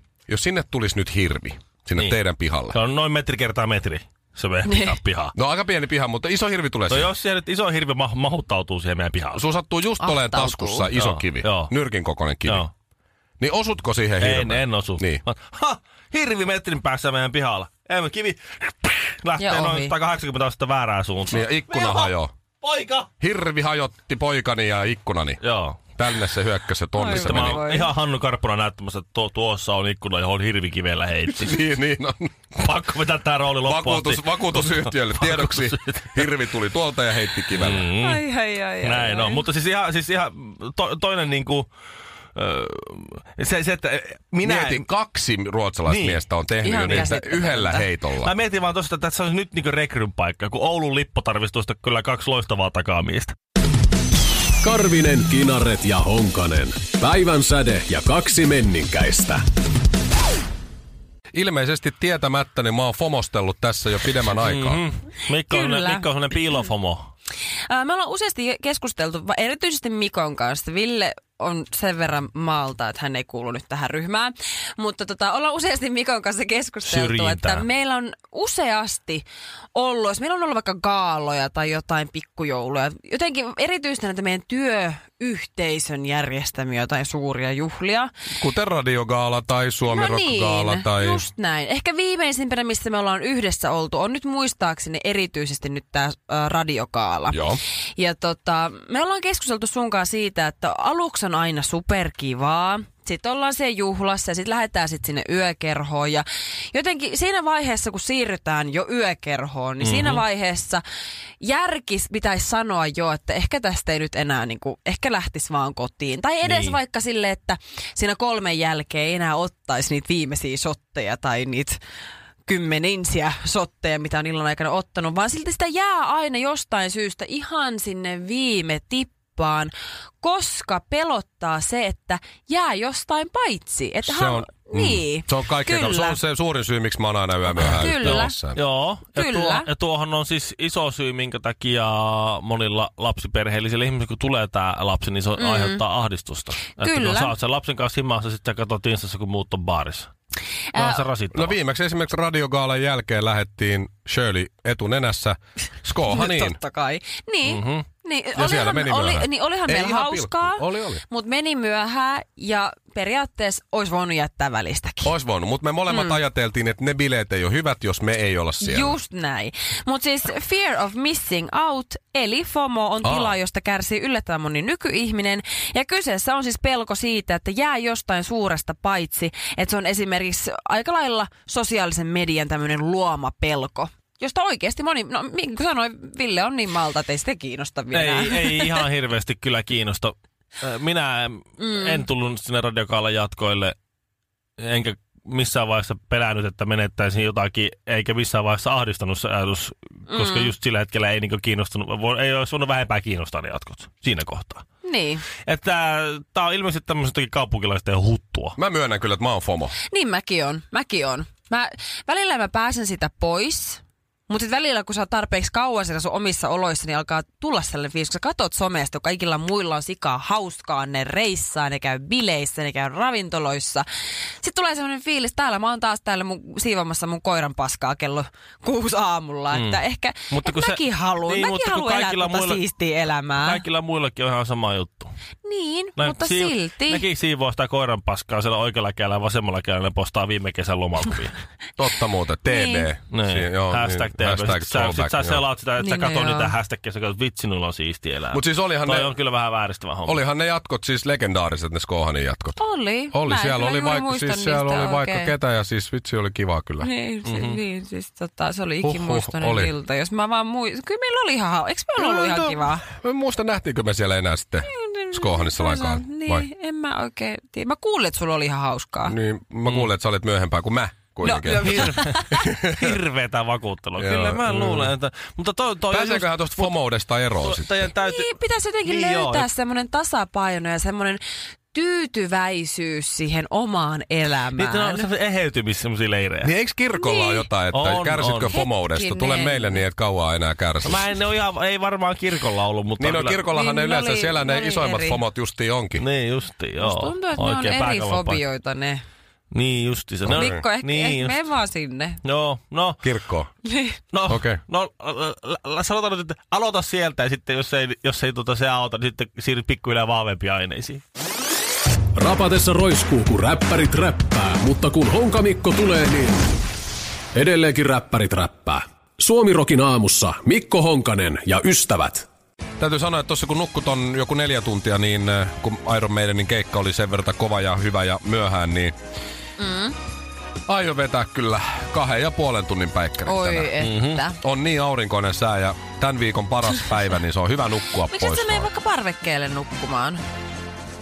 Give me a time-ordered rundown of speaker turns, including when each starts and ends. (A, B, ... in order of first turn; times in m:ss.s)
0:00.3-0:02.8 A
0:02.7-0:05.3 B
0:04.7-0:04.9 C
0:05.3-0:07.1 A
0:06.9-0:09.4 B
0:09.3-0:12.6 A
0:10.0-0:10.9 C
0:10.9-0:11.7 B
0:12.4-0:12.7 B
0:13.4-0:15.2 A
0:14.2-0:23.1 B
0:19.4-0:19.9 C
0:21.3-0:22.3 A
0:23.2-0:25.4 A
0:25.4-0:25.8 B
0:26.0-0:27.6 A
0:27.0-0:27.9 C
0:27.1-0:31.7 B
0:31.4-0:32.3 A
0:32.5-0:36.2 B
0:33.6-0:37.9 A
0:37.5-0:38.2 B
0:38.0-0:39.4 C
0:38.8-0:41.7 B
0:42.3-0:44.8 B
0:44.4-0:48.3 A
0:45.9-0:46.2 B
0:46.6-0:47.9 C
0:46.8-0:47.1 B
0:48.2-0:53.3 B
0:54.6-0:59.4 D
1:01.3-1:04.8 A
1:04.4-1:07.1 B
1:05.5-1:06.1 C
1:07.7-1:28.1 C
1:16.8-1:17.6 B
1:28.3-1:31.2 A
1:29.9-1:37.4 C
1:37.3-1:37.6 A
1:38.0-1:50.8 C
1:49.8-1:50.2 B
1:51.4-2:01.8 C
1:56.4-1:56.8 B
2:02.4-2:16.2 C
2:14.0-2:18.6 A
2:17.5-2:18.3 C
2:17.6-2:30.1 B
2:19.1-2:19.7 C
2:25.4-2:25.8 C
2:26.7-2:27.3 C
2:30.7-2:31.6 B
2:30.7-2:31.0 C
2:31.3-2:36.6 A
2:36.1-2:45.1 C
2:37.4-2:37.8 B
2:38.3-2:41.0 A
2:45.0-2:49.0 A
2:45.9-2:46.2 C
2:48.6-3:08.8 C
2:53.0-2:53.4 A
3:07.9-3:13.8 B
3:11.6-3:12.0 C
3:14.6-3:24.6 B
3:20.1-3:20.5 C
3:24.8-3:25.2 C
3:25.4-3:28.6 B
3:28.6-3:29.7 A
3:29.9-3:43.8 C
3:44.4-3:53.6 C
3:49.5-3:52.6 B
3:53.4-3:55.1 B
3:55.4-3:57.0 C
3:56.0-4:01.4 B
4:01.8-4:05.4 A
4:02.4-4:02.9 C
4:03.1-4:10.2 B
4:05.8-4:06.6 C
4:08.3-4:09.1 A
4:10.0-4:12.6 A
4:12.6-4:15.3 C
4:13.1-4:16.9 A
4:16.8-4:22.8 C
4:17.2-4:17.6 B
4:18.8-4:19.7 A
4:22.0-4:26.5 A
4:24.6-4:29.1 C
4:29.0-4:32.9 A
4:31.2-4:32.5 C
4:31.6-4:36.7 B
4:34.0-4:34.9 A
4:35.9-4:37.9 A
4:37.3-4:38.3 B
4:38.0-4:45.1 C
4:38.8-4:39.5 B
4:44.5-4:46.5 B
4:46.4-4:51.0 A
4:46.9-4:47.5 C
4:47.7-4:48.5 B
4:48.5-4:49.8 C
4:50.8-4:53.4 B
4:53.0-4:56.0 A
4:53.5-4:55.2 C
4:56.0-4:58.4 B
4:56.8-4:59.0 C
4:59.5-5:01.4 B
5:00.3-5:00.6 A
5:00.3-5:02.2 C
5:02.2-5:03.0 B
5:03.0-5:03.5 A
5:03.6-5:04.0 C
5:04.1-5:11.0 B
5:04.3-5:04.6 A
5:12.2-5:16.4 D
5:17.3-5:22.2 D
5:22.8-5:28.9 A
5:29.6-5:29.9 C
5:30.7-5:33.8 A
5:33.2-5:34.4 C
5:33.8-5:34.2 B
5:34.3-5:38.7 A
5:38.1-5:40.2 C